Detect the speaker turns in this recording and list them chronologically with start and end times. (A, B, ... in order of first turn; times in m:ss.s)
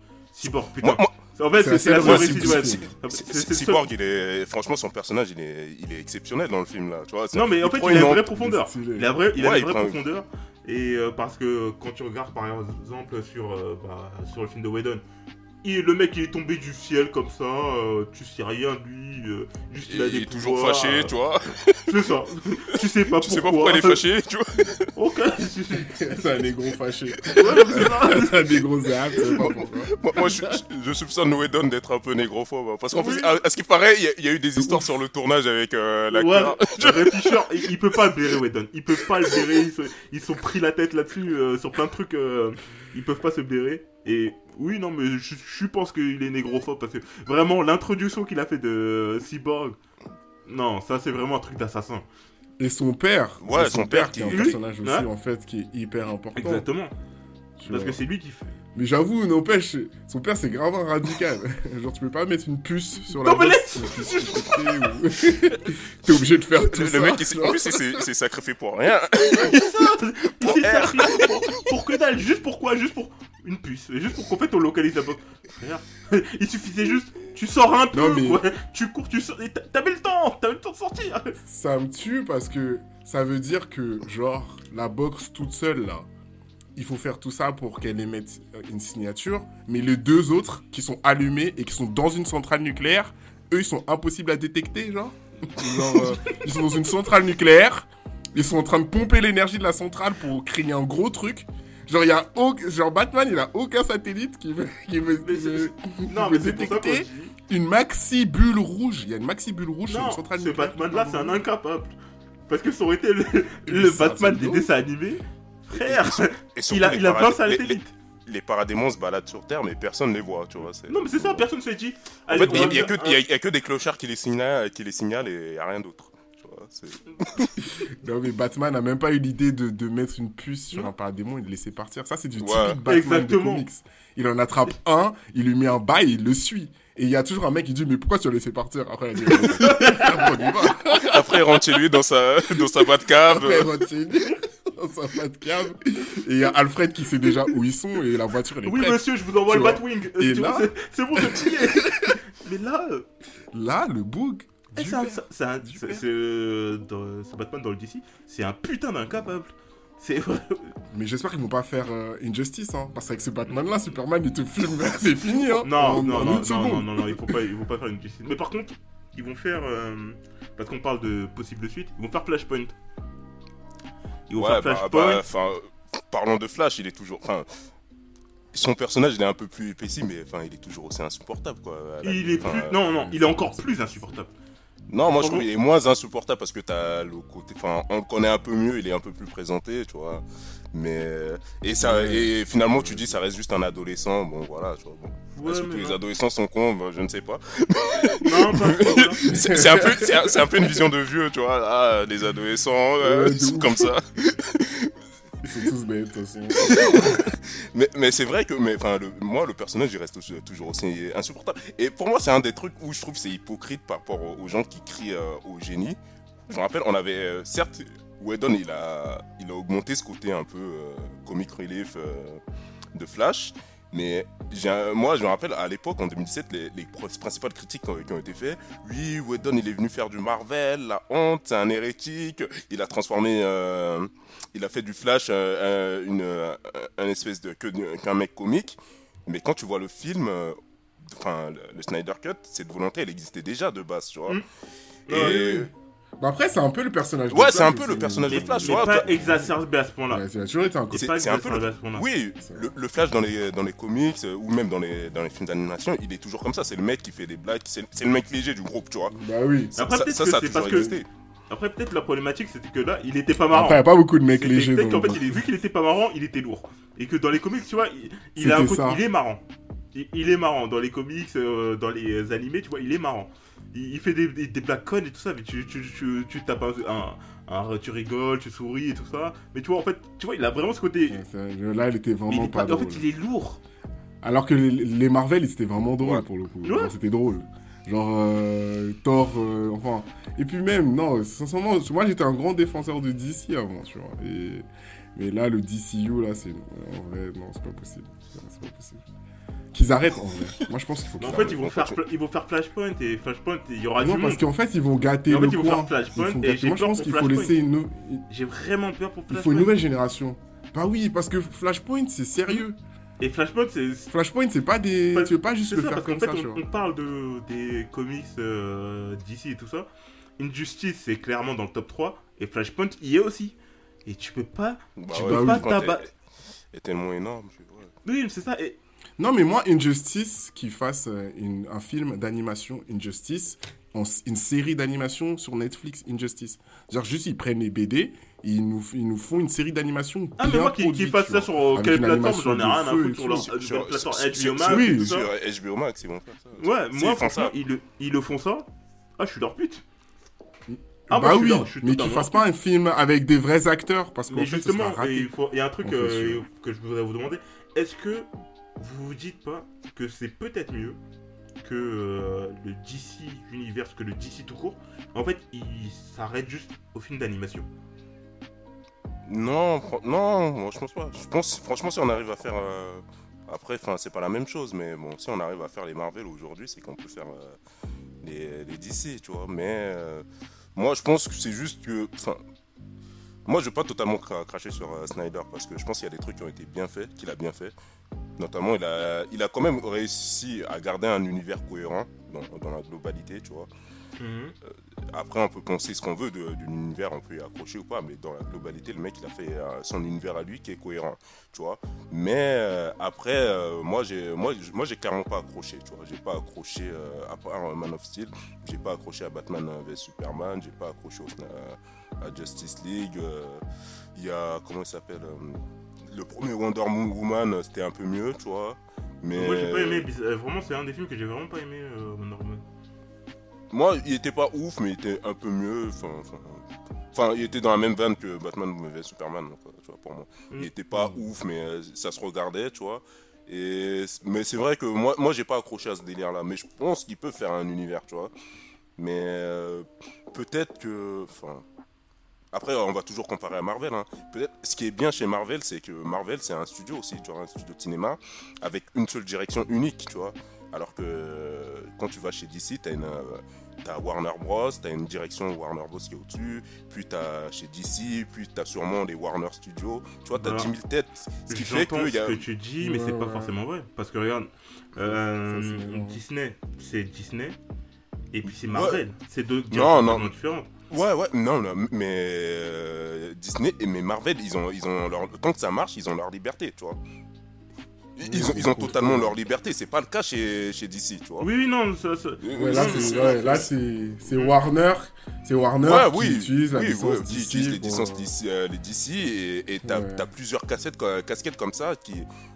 0:00.4-0:03.8 A
0:00.8-0:01.2 B
0:01.6-0:02.9 C
0:01.8-0:08.5 B
0:07.3-0:15.0 A
0:08.4-0:09.1 C
0:09.4-0:10.0 B
0:15.6-0:21.1 A
0:19.9-0:21.9 B
0:21.9-0:24.0 A
0:23.1-0:24.9 B
0:25.0-0:26.2 A
0:25.7-0:30.6 C
0:27.4-0:28.4 A
0:29.3-0:37.7 B
0:33.0-0:33.4 A
0:34.6-0:34.9 C
0:36.1-0:49.8 A
0:50.5-0:52.1 A
0:52.6-0:56.7 C
0:53.4-0:54.6 B
0:54.3-0:55.1 A
0:56.4-0:57.0 A
0:57.6-0:58.0 C
0:57.7-0:58.5 A
0:58.7-1:08.0 C
1:03.2-1:04.9 A
1:06.6-1:11.7 B
1:09.5-1:21.4 A
1:17.9-1:18.4 C
1:21.5-1:26.1 C
1:26.8-1:51.4 C
1:45.2-1:47.3 A
1:49.9-1:52.0 A
1:52.5-1:57.9 A
1:53.7-1:54.7 C
1:55.7-2:01.5 B
2:00.9-2:03.2 A
2:02.3-2:07.6 B
2:07.6-2:21.4 C
2:12.4-2:12.8 B
2:12.9-2:13.6 A
2:19.4-2:20.1 A
2:20.9-2:23.7 B
2:23.3-2:32.2 C
2:28.6-2:33.1 A
2:33.5-2:36.0 C
2:34.8-2:40.8 A
2:40.9-2:47.3 C
2:45.6-2:52.7 A
2:54.3-2:55.2 A
2:54.4-2:57.5 B
2:58.5-3:02.8 B
3:02.0-3:04.3 A
3:02.6-3:03.5 C
3:04.9-3:25.0 B
3:05.2-3:05.5 A
3:11.8-3:13.2 C
3:15.4-3:16.0 A
3:18.2-3:19.2 A
3:19.2-3:20.7 C
3:23.0-3:23.9 C
3:25.4-3:27.2 C
3:26.6-3:42.4 B
3:43.0-4:04.4 B
4:05.1-4:05.6 A
4:05.1-4:05.7 B
4:05.1-4:09.5 C
4:07.3-4:09.3 B
4:08.3-4:10.2 A
4:10.1-4:11.1 C
4:10.9-4:12.0 A
4:10.9-4:19.2 B
4:12.4-4:12.7 C
4:19.1-4:19.7 C
4:19.8-4:21.1 B
4:19.8-4:21.0 A
4:21.5-4:41.2 A
4:23.5-4:25.4 C
4:28.4-4:29.0 C
4:41.1-4:43.0 C
4:42.3-4:43.6 A
4:44.2-4:59.0 C
4:46.6-4:46.9 A
4:59.7-5:01.6 C
5:01.2-5:04.4 A
5:01.3-5:02.0 B
5:04.0-5:08.2 C
5:05.3-5:07.6 A
5:08.3-5:09.7 A
5:09.3-5:12.8 C
5:13.2-5:14.1 A
5:14.1-5:16.6 C
5:15.1-5:19.9 A
5:20.4-5:26.0 A
5:25.0-5:26.1 B
5:25.2-5:25.7 C
5:26.7-5:27.9 B
5:28.0-5:28.8 A
5:29.2-5:43.5 C
5:40.4-5:45.3 A
5:43.4-5:47.5 B
5:44.6-5:45.2 C
5:46.6-5:48.7 A
5:49.2-5:49.8 A
5:50.7-5:55.3 C
5:51.1-5:52.4 A
5:54.3-6:01.0 A
5:55.8-5:56.4 C
6:01.6-6:07.7 A
6:09.3-6:17.6 B
6:18.2-6:22.4 B
6:23.5-6:27.7 B
6:28.4-6:33.7 B
6:34.2-6:34.5 A
6:34.7-6:53.6 B
6:54.2-7:00.1 B
6:59.3-7:02.6 A
7:03.7-7:18.3 B
7:10.9-7:11.2 C
7:19.0-7:21.6 B
7:22.5-7:42.4 B
7:40.4-7:40.7 A
7:41.5-7:47.6 A
7:42.8-7:43.5 C
7:45.0-7:46.2 C
7:48.3-7:50.7 A
7:48.7-7:49.0 B
7:49.7-7:50.3 B
7:50.9-7:57.0 B
7:58.2-8:01.5 B
7:58.2-7:59.4 C
8:01.4-8:03.7 A
8:02.4-8:03.7 B
8:02.5-8:08.3 C
8:05.8-8:12.3 B
8:09.8-8:10.3 C